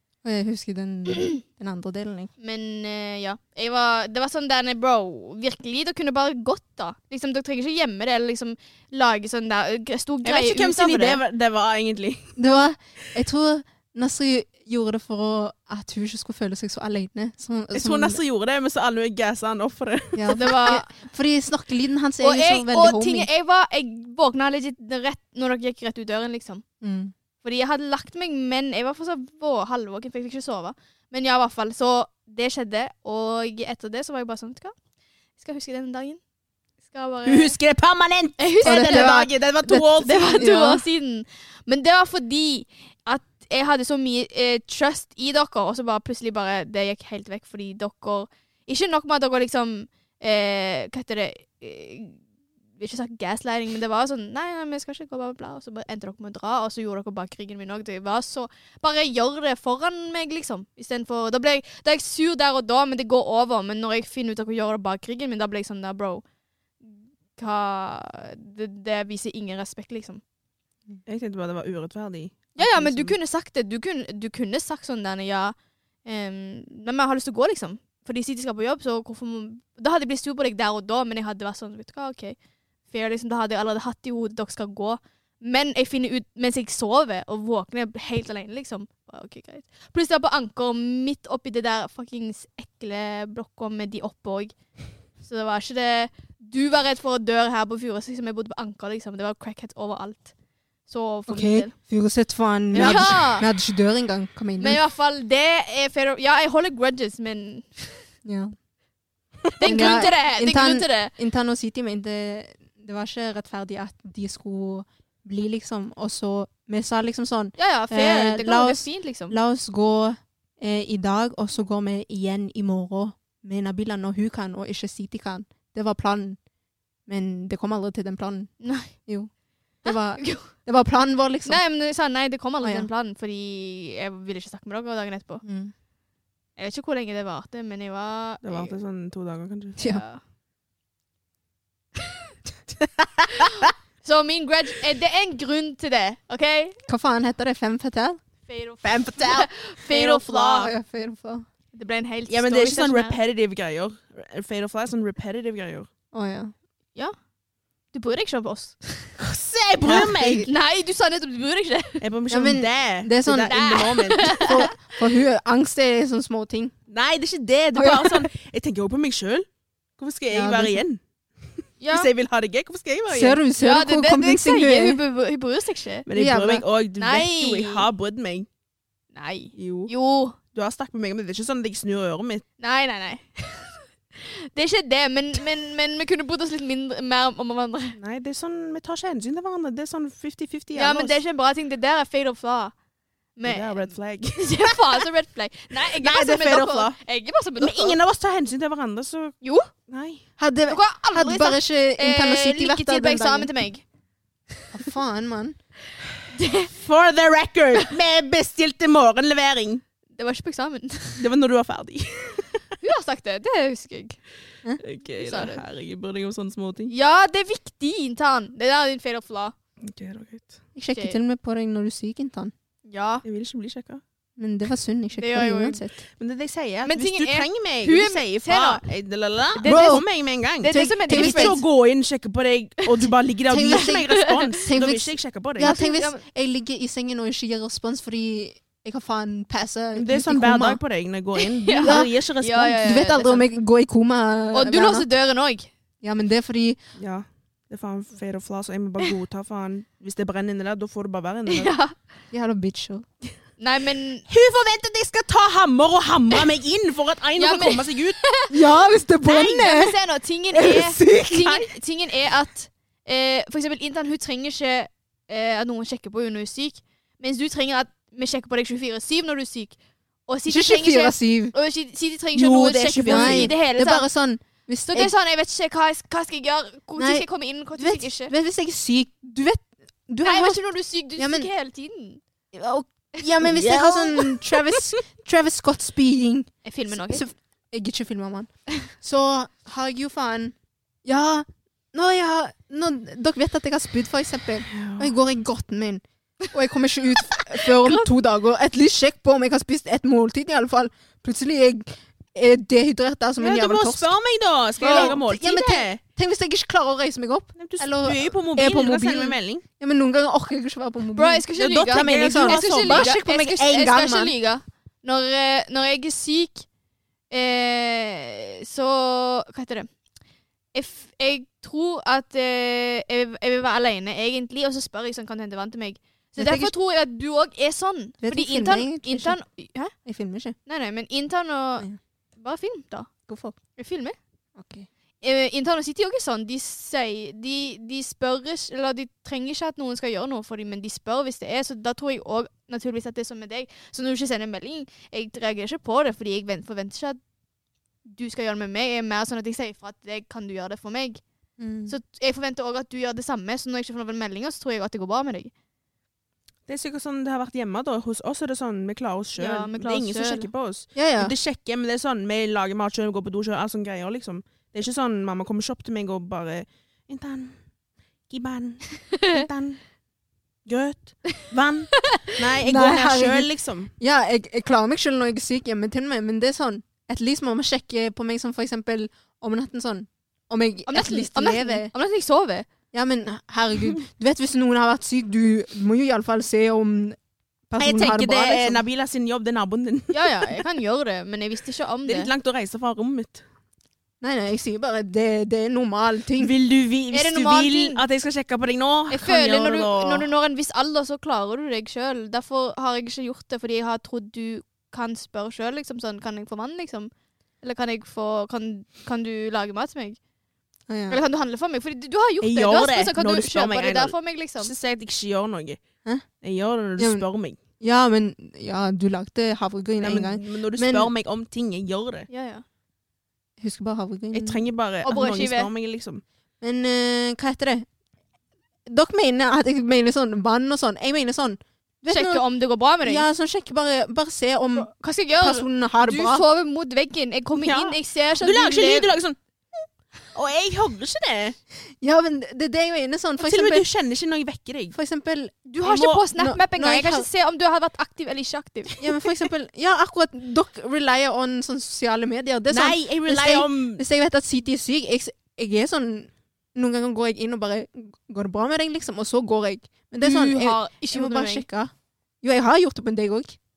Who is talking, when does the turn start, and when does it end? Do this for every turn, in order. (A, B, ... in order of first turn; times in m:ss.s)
0:00.2-0:02.3 A
0:02.4-0:11.2 B
0:10.2-0:12.3 C
0:12.4-0:18.2 A
0:17.7-0:20.6 C
0:20.1-0:23.3 A
0:20.3-0:20.9 B
0:22.2-0:26.6 B
0:26.8-0:27.1 A
0:27.4-0:34.7 B
0:35.4-0:36.2 B
0:36.9-0:37.5 B
0:37.2-0:40.4 C
0:38.4-0:52.2 B
0:38.6-0:40.8 A
0:52.8-1:06.2 B
1:06.8-1:10.2 B
1:11.0-1:13.2 C
1:12.6-1:22.4 B
1:22.9-1:34.5 B
1:35.2-1:40.3 B
1:40.9-1:41.7 B
1:41.3-1:44.8 A
1:42.7-1:43.2 C
1:42.7-1:43.5 B
1:44.6-1:48.0 B
1:48.2-1:48.5 A
1:49.6-1:51.1 B
1:49.6-2:06.4 A
1:49.7-1:50.0 C
1:57.6-1:59.3 B
2:07.1-2:08.5 A
2:08.6-2:08.9 B
2:09.8-2:11.6 A
2:09.8-2:10.4 B
2:11.4-2:15.4 B
2:12.6-2:12.9 A
2:15.4-2:15.7 A
2:16.6-2:18.7 B
2:18.4-2:19.8 C
2:19.8-2:20.2 B
2:23.4-2:26.8 B
2:26.9-2:28.2 A
2:28.5-2:30.7 B
2:28.8-2:30.7 C
2:30.4-2:31.4 A
2:31.7-2:33.2 B
2:32.3-2:35.9 C
2:36.1-2:36.5 A
2:37.9-2:39.1 B
2:39.2-2:40.5 C
2:39.9-2:40.5 A
2:40.4-2:42.0 B
2:42.0-2:44.6 C
2:42.3-2:43.6 A
2:43.5-2:44.8 B
2:44.2-2:46.7 A
2:46.9-2:49.5 C
2:47.8-2:48.3 A
2:50.0-2:51.0 C
2:50.3-2:50.8 A
2:51.8-2:52.1 B
2:51.9-2:53.4 C
2:53.1-2:55.0 A
2:53.6-2:56.1 B
2:56.1-2:58.5 C
2:56.1-2:56.6 A
2:57.0-2:57.8 B
2:59.1-3:00.4 B
2:59.6-2:59.9 C
3:00.5-3:02.4 C
3:02.6-3:08.0 B
3:08.0-3:11.2 C
3:10.8-3:12.7 B
3:13.4-3:18.0 B
3:13.4-3:14.8 C
3:15.8-3:17.0 C
3:17.6-3:19.4 C
3:19.4-3:19.7 B
3:19.9-3:20.2 C
3:20.4-3:23.5 A
3:20.7-3:23.8 B
3:24.7-3:25.6 A
3:26.3-3:26.7 B
3:26.7-3:29.8 C
3:30.2-3:31.2 B
3:31.2-3:32.6 C
3:32.8-3:34.2 B
3:34.8-3:36.9 C
3:35.2-3:35.6 B
3:36.9-3:39.5 B
3:39.8-3:40.6 C
3:40.7-3:42.5 A
3:42.8-3:43.2 B
3:43.2-3:44.0 C
3:44.4-3:45.9 A
3:45.2-3:45.8 B
3:46.2-3:55.7 C
3:46.8-3:48.8 B
3:49.5-3:50.0 B
3:49.6-3:50.0 A
3:50.6-3:51.6 B
3:50.6-3:51.6 A
3:53.5-4:00.8 A
3:53.7-3:54.5 B
3:55.6-3:56.2 B
3:59.9-4:02.9 C
4:01.4-4:03.4 B
4:01.8-4:02.1 A
4:02.8-4:05.1 A
4:04.5-4:05.7 B
4:06.0-4:06.8 A
4:07.0-4:11.7 C
4:11.5-4:11.9 B
4:12.3-4:13.0 A
4:13.6-4:14.2 B
4:14.3-4:18.2 C
4:17.4-4:18.5 B
4:18.5-4:20.0 A
4:19.2-4:29.8 B
4:20.5-4:21.6 A
4:30.3-4:34.0 B
4:30.5-4:31.5 A
4:32.3-4:33.5 C
4:33.0-4:35.1 A
4:34.9-4:38.3 B
4:37.0-4:37.2 A
4:37.8-4:40.6 A
4:40.2-4:42.2 B
4:41.2-4:41.5 A
4:42.5-5:04.1 A
4:43.5-4:44.2 C
4:46.6-4:47.2 B
4:54.7-4:55.1 C
4:57.3-4:58.1 B
5:03.4-5:06.0 C
5:04.8-5:14.3 A
5:04.8-5:05.2 B
5:07.6-5:09.6 C
5:11.1-5:16.6 B
5:11.6-5:13.1 C
5:17.3-5:19.9 B
5:20.7-5:29.9 B
5:26.4-5:26.7 A
5:28.2-5:29.4 A
5:30.0-5:30.5 A
5:30.7-5:33.1 B
5:33.3-5:33.6 A
5:33.8-5:34.2 B
5:34.6-5:34.9 A
5:35.2-5:47.2 B
5:48.0-5:51.2 B
5:51.6-5:51.9 A
5:51.9-5:55.5 B
5:56.7-6:07.6 C
5:59.4-6:00.5 B
6:00.9-6:01.3 A
6:08.3-6:09.8 C
6:10.6-6:13.9 C
6:12.6-6:21.9 A
6:20.9-6:22.6 B
6:22.9-6:27.2 A
6:27.7-6:28.8 A
6:27.8-6:30.6 C
6:30.1-6:32.3 B
6:32.0-6:33.4 C
6:34.2-6:36.5 A
6:36.4-6:40.3 C
6:37.1-6:38.0 B
6:39.1-6:47.1 B
6:47.6-6:50.2 B
6:50.9-6:51.2 A
6:51.1-6:54.7 B
6:52.4-6:55.8 C
6:56.4-6:57.6 C
6:57.0-6:57.2 A
6:57.8-7:01.1 A
7:00.0-7:02.3 C
7:02.3-7:02.6 B
7:03.6-7:04.6 A
7:04.3-7:06.2 C
7:05.0-7:05.7 B
7:06.6-7:07.9 A
7:08.8-7:12.4 A
7:12.1-7:13.2 B
7:13.0-7:16.4 A
7:14.8-7:19.1 B
7:17.6-7:19.4 C
7:20.3-7:21.6 C
7:22.0-7:23.8 A
7:23.4-7:25.0 C
7:24.9-7:25.7 A
7:25.7-7:29.0 B
7:25.8-7:26.2 C
7:26.3-7:27.3 A
7:29.0-7:43.6 A
7:32.7-7:34.0 C
7:40.2-7:41.6 B